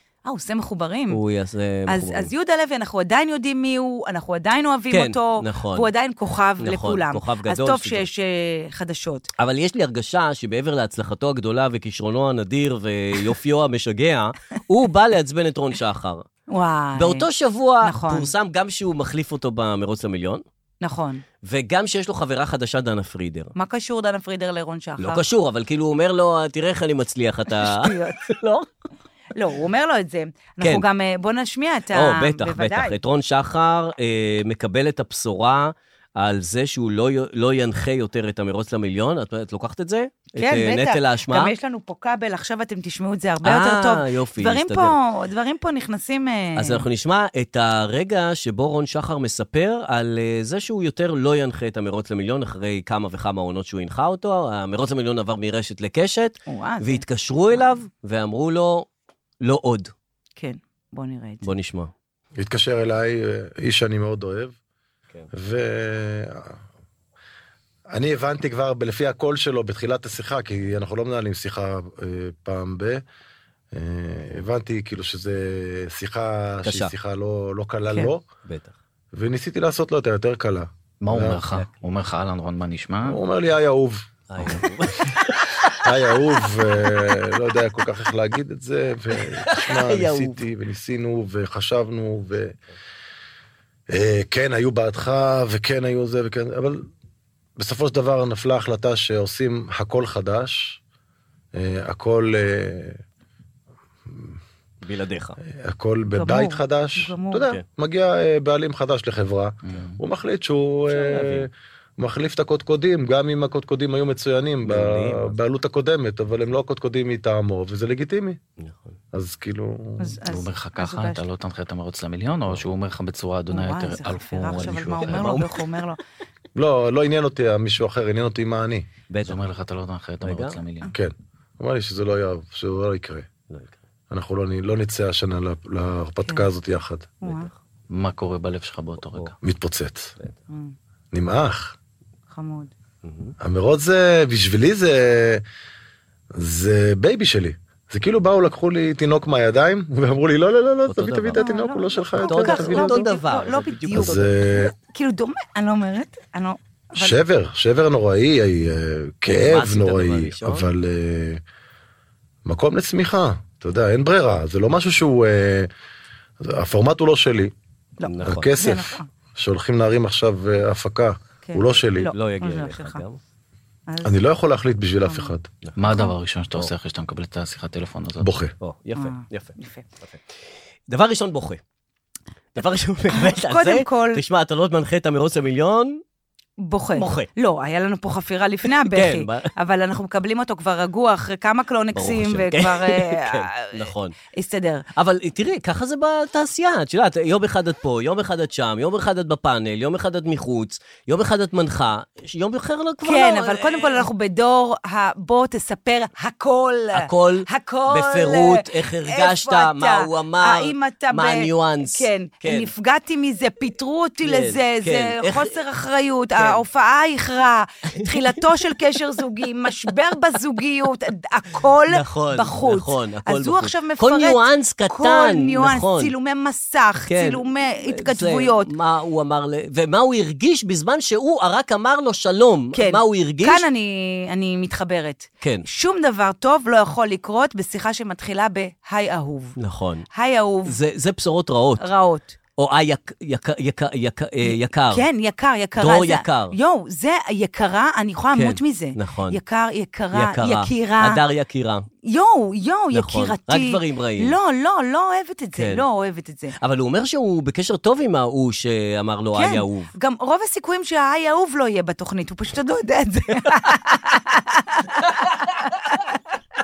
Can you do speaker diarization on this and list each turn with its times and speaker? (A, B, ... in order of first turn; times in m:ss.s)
0:00.2-0:01.2 A
0:01.1-0:02.3 B
0:01.9-0:09.3 A
0:04.9-0:05.9 B
0:06.6-0:08.0 B
0:09.4-0:16.2 B
0:16.5-0:17.3 A
0:17.0-0:20.4 B
0:17.8-0:18.3 A
0:20.8-0:21.2 A
0:21.4-0:23.5 B
0:23.5-0:25.2 A
0:25.0-0:28.7 B
0:27.6-0:28.2 A
0:29.3-0:33.0 A
0:31.9-0:41.5 B
0:40.3-0:46.8 A
0:43.4-0:44.9 B
0:46.6-0:58.9 B
0:56.5-0:57.0 A
0:59.4-0:59.9 B
1:00.4-1:01.5 A
1:01.4-1:01.9 B
1:02.4-1:04.5 C
1:05.3-1:06.5 C
1:07.9-1:13.0 C
1:13.7-1:18.2 C
1:16.6-1:16.9 B
1:18.4-1:18.7 B
1:19.1-1:21.5 C
1:21.0-1:23.2 D
1:21.4-1:21.7 B
1:23.1-1:24.2 C
1:24.3-1:26.4 B
1:25.8-1:32.5 C
1:29.2-1:30.4 B
1:33.9-1:36.9 C
1:37.6-1:40.8 C
1:41.5-1:43.0 C
1:44.1-1:44.4 C
1:44.8-1:45.4 B
1:45.6-1:58.4 C
1:46.1-1:47.5 A
1:49.6-1:50.0 D
1:50.9-1:51.5 B
1:54.6-1:55.4 B
1:58.6-1:58.9 B
1:59.1-2:00.1 C
2:00.0-2:01.2 A
2:00.2-2:05.4 D
2:03.5-2:06.0 A
2:05.0-2:05.5 B
2:06.6-2:08.8 C
2:09.1-2:09.4 B
2:09.2-2:10.9 D
2:10.2-2:10.6 B
2:10.9-2:13.3 C
2:14.1-2:17.2 C
2:17.2-2:17.5 A
2:17.9-2:19.4 D
2:19.4-2:20.1 C
2:20.5-2:20.8 A
2:21.1-2:21.8 C
2:22.3-2:22.7 A
2:23.0-2:23.3 B
2:23.4-2:25.4 C
2:26.4-2:33.1 C
2:30.8-2:31.4 B
2:31.4-2:37.2 A
2:32.2-2:34.3 B
2:33.9-2:34.7 C
2:36.9-2:41.4 C
2:39.3-2:40.7 B
2:42.4-2:45.7 C
2:46.4-2:47.5 C
2:48.0-2:49.1 A
2:48.1-2:48.6 B
2:48.2-2:52.1 C
2:51.4-2:53.0 A
2:52.0-2:53.2 B
2:53.9-2:54.2 A
2:54.0-2:55.5 C
2:55.0-2:55.3 A
2:55.8-2:58.3 D
2:58.2-2:58.5 C
2:58.6-3:00.3 B
2:59.0-2:59.8 A
3:00.9-3:01.6 B
3:02.5-3:06.0 B
3:03.1-3:04.2 A
3:06.6-3:14.8 A
3:07.0-3:07.3 B
3:08.8-3:09.5 B
3:11.9-3:14.2 B
3:14.9-3:24.1 B
3:23.0-3:48.7 A
3:26.9-3:32.7 B
3:34.2-3:35.6 B
3:36.4-3:36.6 B
3:38.0-3:38.4 B
3:41.9-3:46.1 B
3:47.1-3:53.6 B
3:52.7-3:59.6 A
3:55.4-3:55.6 B
3:59.6-4:00.0 B
4:00.1-4:00.8 A
4:00.6-4:01.8 B
4:01.8-4:02.4 A
4:02.6-4:05.0 B
4:04.4-4:11.2 A
4:05.8-4:06.5 B
4:08.3-4:09.4 B
4:10.1-4:11.9 B
4:12.0-4:16.5 A
4:12.9-4:14.4 B
4:15.6-4:15.8 B
4:16.6-4:19.9 B
4:19.3-4:26.1 A
4:25.1-4:25.5 B